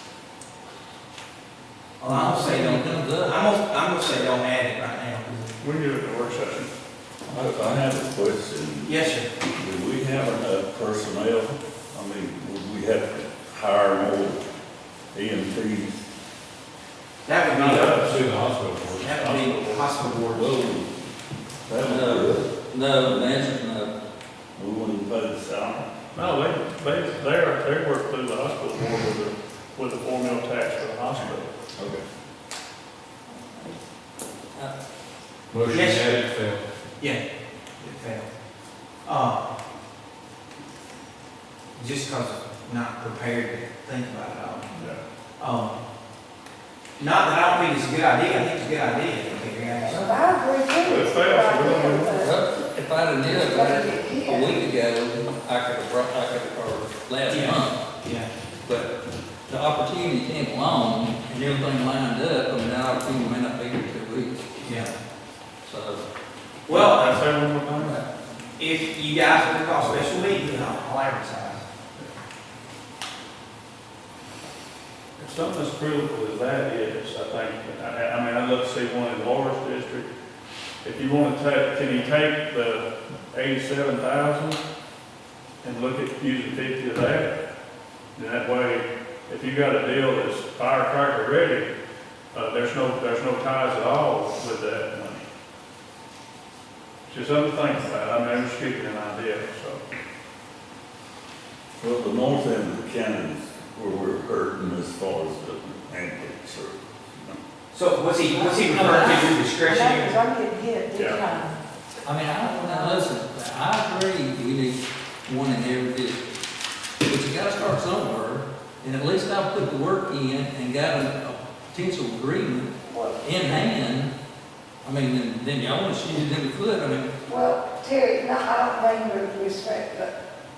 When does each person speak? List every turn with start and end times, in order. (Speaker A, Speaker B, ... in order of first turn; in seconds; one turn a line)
Speaker A: 2.0-5.6
Speaker B: 2.1-3.5
Speaker C: 5.6-6.7
Speaker D: 7.3-14.4
Speaker B: 7.3-7.8
Speaker A: 8.8-9.3
Speaker D: 15.1-16.0
Speaker A: 17.2-18.1
Speaker C: 17.5-18.2
Speaker E: 17.7-19.2
Speaker A: 19.0-20.6
Speaker C: 19.2-19.9
Speaker D: 20.3-20.9
Speaker D: 21.7-22.5
Speaker B: 21.8-23.9
Speaker D: 24.6-26.0
Speaker C: 26.1-31.5
Speaker D: 31.8-32.0
Speaker F: 33.3-33.8
Speaker E: 35.5-36.6
Speaker A: 35.7-36.2
Speaker A: 37.8-38.3
Speaker A: 39.0-39.5
Speaker A: 41.7-44.7
Speaker C: 44.7-45.0
Speaker A: 45.4-45.8
Speaker A: 47.0-50.1
Speaker F: 49.8-52.4
Speaker B: 49.9-50.1
Speaker C: 50.8-52.2
Speaker B: 52.2-57.8
Speaker F: 53.3-54.6
Speaker A: 57.3-58.3
Speaker B: 58.6-58.9
Speaker B: 59.5-64.8
Speaker A: 64.6-64.9
Speaker B: 65.6-66.0
Speaker A: 66.7-67.2
Speaker C: 66.7-68.0
Speaker B: 67.8-68.0
Speaker A: 68.6-71.7
Speaker C: 75.2-80.1
Speaker C: 80.8-84.6
Speaker C: 85.6-87.3
Speaker C: 88.2-91.7
Speaker C: 92.3-95.2
Speaker C: 97.1-99.8
Speaker D: 101.8-107.4
Speaker A: 107.7-110.2
Speaker B: 108.3-109.2
Speaker F: 108.8-111.6
Speaker C: 111.0-111.2
Speaker B: 112.0-116.2
Speaker F: 112.4-113.1
Speaker B: 117.1-124.1
Speaker F: 122.9-123.7
Speaker B: 124.8-127.1
Speaker F: 127.2-130.1